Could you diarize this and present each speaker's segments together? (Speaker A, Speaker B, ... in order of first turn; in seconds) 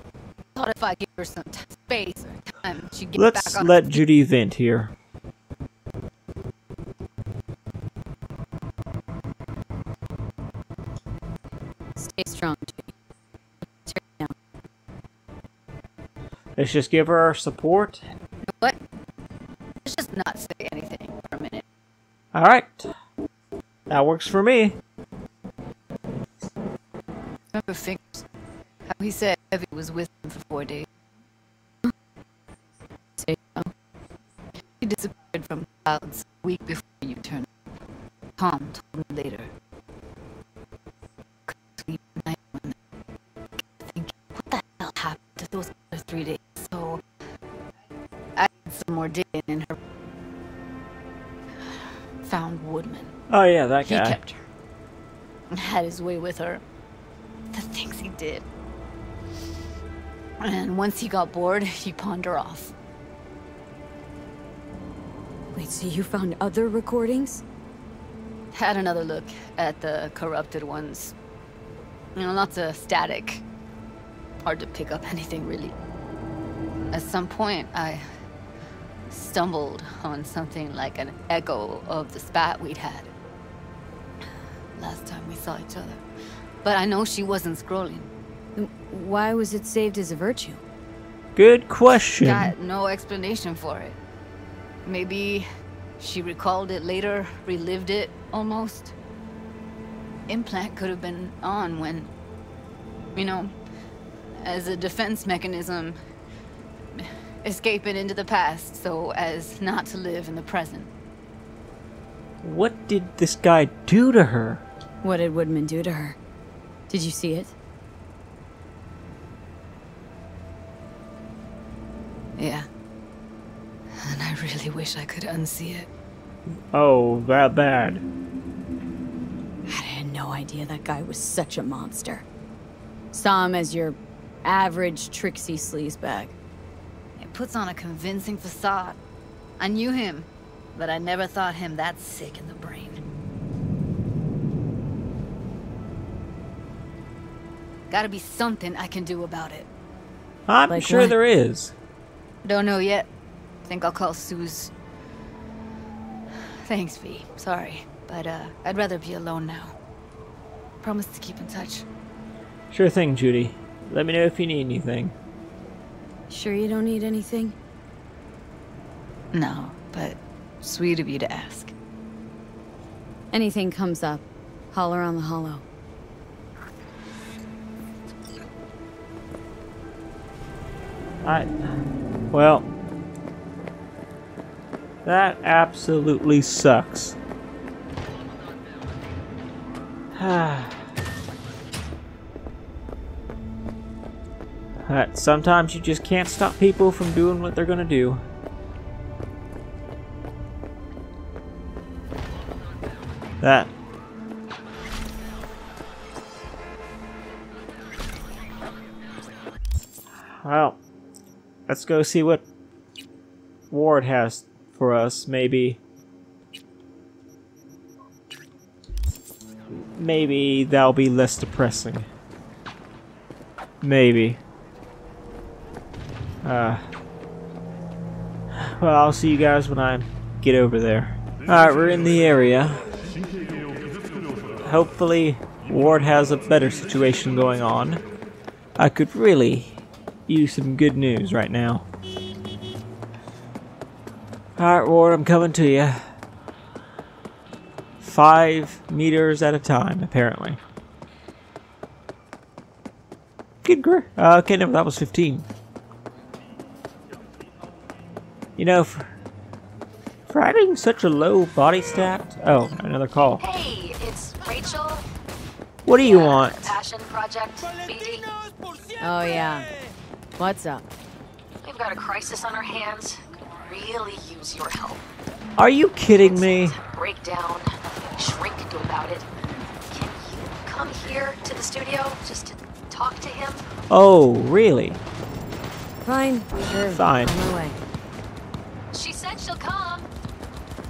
Speaker A: 0.5-3.7, 18.4-18.8, 19.8-21.6, 27.5-28.2, 28.9-30.9, 34.8-37.5, 38.4-39.5, 41.5-42.7, 43.8-47.0, 48.4-49.8, 51.6-53.1, 53.9-54.4, 55.5-56.6, 57.5-58.4, 60.4-62.7, 68.5-71.1, 72.1-73.4, 74.4-75.8, 76.9-78.1, 79.1-83.1, 84.7-86.0, 86.6-88.1, 92.2-94.0, 94.8-95.5, 96.0-98.9, 100.3-102.1, 103.1-103.5, 104.3-106.0, 106.9-110.9, 122.4-122.7, 123.9-125.9, 137.2-139.0, 139.6-143.0, 147.9-149.7, 152.4-153.1, 153.7-154.7, 156.3-159.8, 160.8-161.8, 169.3-171.7
Speaker B: 3.1-4.9, 16.6-18.0, 22.3-22.9, 23.9-24.8, 53.3-54.2, 91.3-92.5, 112.4-114.6, 126.7-128.0, 150.5-151.7, 162.7-165.1, 181.2-181.5, 182.3-182.7, 185.0-187.2, 190.1-190.8, 194.8-198.2, 203.4-203.7, 210.3-210.8, 211.7-212.4, 213.7-215.8, 220.0-222.1, 223.8-224.4, 226.4-226.8, 228.5-232.8, 234.6-238.0, 238.8-241.8, 244.6-246.1, 248.0-250.6, 253.6-255.4, 258.6-259.1, 260.3-263.4, 265.9-266.8, 275.6-276.8, 283.9-285.0, 286.9-287.3
Speaker C: 11.9-12.9, 13.9-14.3, 33.2-33.6, 65.5-67.4, 88.6-90.6, 115.0-116.2, 116.9-117.5, 129.7-132.2, 133.1-136.3, 150.7-151.1, 166.3-167.6, 173.3-175.6, 269.0-269.7, 270.4-270.9, 286.0-287.8
Speaker D: 263.4-265.0, 265.9-268.3, 271.6-275.0, 276.1-279.3, 279.9-283.7, 288.9-290.1